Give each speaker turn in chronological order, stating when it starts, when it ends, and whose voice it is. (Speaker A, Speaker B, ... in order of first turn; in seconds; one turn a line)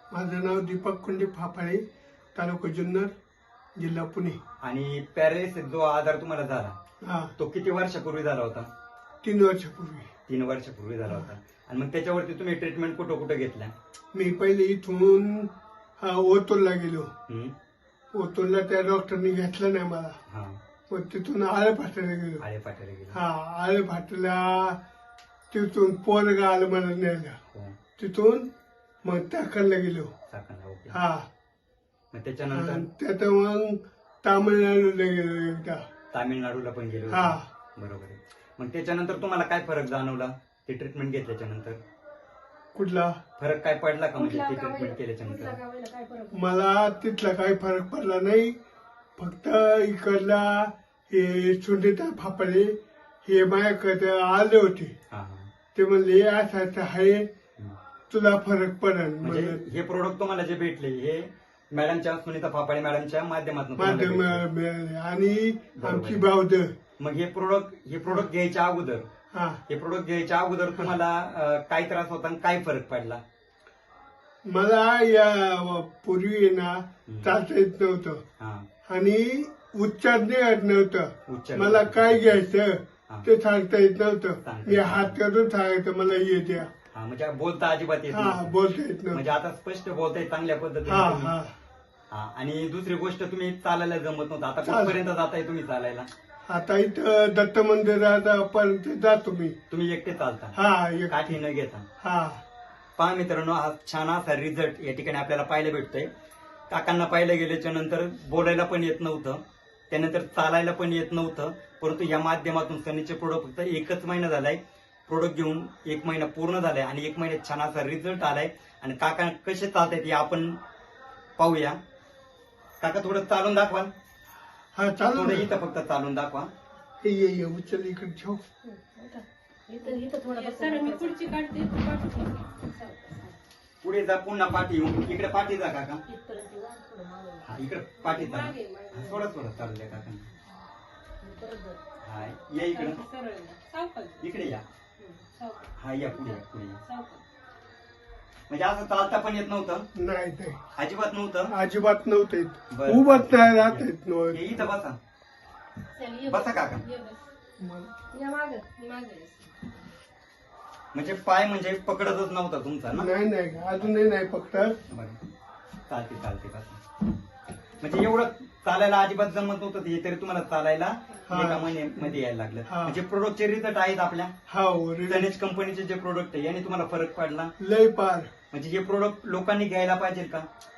Speaker A: 0.1-3.1
Speaker A: 3.8-4.4
Speaker B: 4.6-6.8
Speaker A: 7.0-7.3
Speaker B: 7.4-8.7
Speaker A: 9.2-10.1
Speaker B: 10.3-13.7
Speaker A: 14.1-17.1
Speaker B: 17.3-17.5
Speaker A: 18.1-20.2
Speaker B: 20.3-20.6
Speaker A: 20.9-22.4
Speaker B: 22.4-23.2
Speaker A: 23.1-24.8
Speaker A: 25.5-27.4
Speaker B: 27.5-27.8
Speaker A: 28.0-28.5
Speaker A: 29.0-30.1
Speaker B: 30.3-31.0
Speaker A: 30.9-31.3
Speaker B: 32.1-32.9
Speaker A: 32.5-35.8
Speaker B: 36.1-41.8
Speaker A: 37.1-37.5
Speaker A: 42.7-43.2
Speaker B: 43.4-45.6
Speaker C: 44.1-46.4
Speaker A: 46.3-48.6
Speaker A: 49.2-54.9
Speaker B: 55.1-55.5
Speaker A: 55.7-57.3
Speaker A: 58.1-59.6
Speaker B: 59.2-64.4
Speaker A: 63.8-66.7
Speaker B: 65.8-66.3
Speaker B: 67.0-69.0
Speaker A: 69.3-69.6
Speaker B: 69.7-73.2
Speaker A: 74.4-78.2
Speaker B: 77.0-77.4
Speaker B: 78.4-78.7
Speaker A: 78.8-86.7
Speaker B: 81.3-82.4
Speaker B: 84.4-85.2
Speaker B: 86.9-88.6
Speaker A: 88.1-89.2
Speaker B: 89.1-91.3
Speaker A: 90.8-91.5
Speaker B: 92.1-96.1
Speaker A: 94.6-95.0
Speaker A: 96.5-99.6
Speaker B: 99.7-100.6
Speaker A: 100.5-101.4
Speaker B: 101.1-101.8
Speaker A: 102.0-102.4
Speaker B: 103.0-106.1
Speaker B: 106.7-120.6
Speaker B: 121.4-121.8
Speaker B: 122.8-123.9
Speaker A: 124.7-125.5
Speaker B: 125.1-126.5
Speaker A: 127.0-128.4
Speaker C: 128.7-131.2
Speaker D: 129.8-133.3
Speaker B: 133.8-136.0
Speaker C: 136.1-137.4
Speaker B: 137.4-140.2
Speaker D: 138.0-139.3
Speaker C: 141.2-141.8
Speaker B: 142.0-143.0
Speaker D: 142.7-144.2
Speaker B: 144.2-144.6
Speaker D: 145.0-147.2
Speaker B: 145.8-146.8
Speaker B: 148.5-149.9
Speaker A: 149.9-150.6
Speaker B: 150.7-151.5
Speaker A: 151.5-154.7
Speaker B: 152.7-155.0
Speaker D: 155.9-157.3
Speaker B: 156.2-156.8
Speaker A: 157.6-157.9
Speaker C: 158.1-159.0
Speaker D: 158.9-159.5
Speaker B: 160.9-163.1
Speaker A: 162.9-164.8
Speaker B: 164.9-165.2
Speaker B: 165.9-166.8
Speaker B: 167.8-174.3
Speaker A: 171.3-173.0
Speaker A: 174.5-175.3
Speaker B: 175.1-177.5
Speaker A: 177.6-178.3
Speaker B: 178.5-180.5